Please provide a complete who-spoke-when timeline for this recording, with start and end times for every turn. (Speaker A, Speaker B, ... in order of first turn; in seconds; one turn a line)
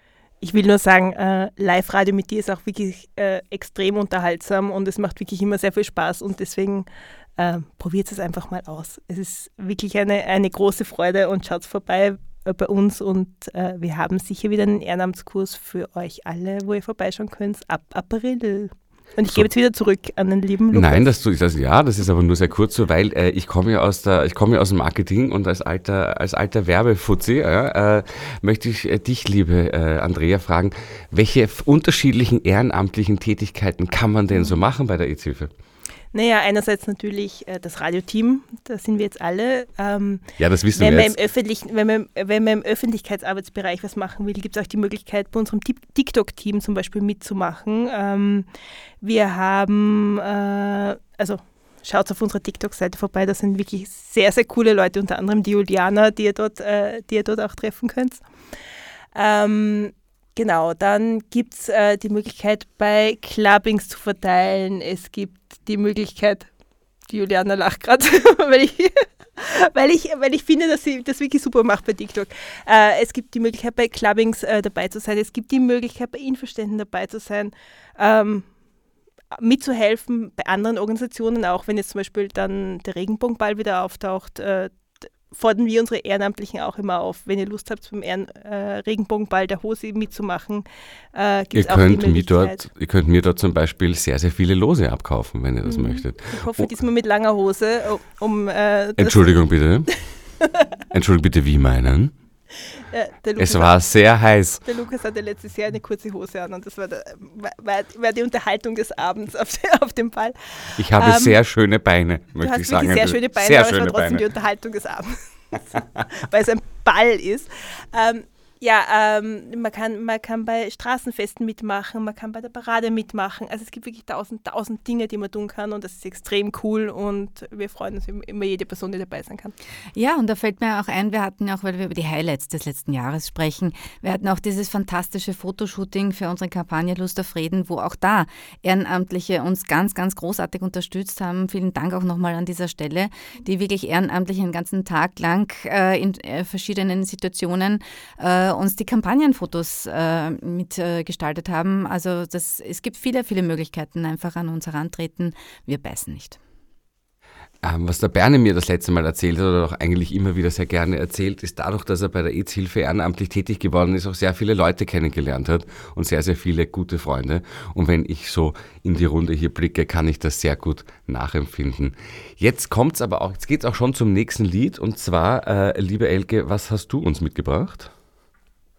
Speaker A: 0.4-21.1
Speaker B: 20.7-35.5
Speaker A: 36.1-48.5
Speaker B: 40.4-41.2
Speaker A: 49.0-58.2
Speaker A: 59.1-66.5
Speaker A: 67.1-78.5
Speaker A: 79.3-92.7
Speaker B: 91.5-96.7
Speaker A: 95.6-100.0
Speaker B: 99.0-99.9
Speaker B: 100.9-102.1
Speaker A: 102.9-103.7
Speaker B: 103.4-104.6
Speaker A: 104.6-111.4
Speaker B: 110.8-114.2
Speaker A: 112.4-115.2
Speaker A: 116.2-129.5
Speaker C: 129.9-156.4
Speaker B: 157.6-177.9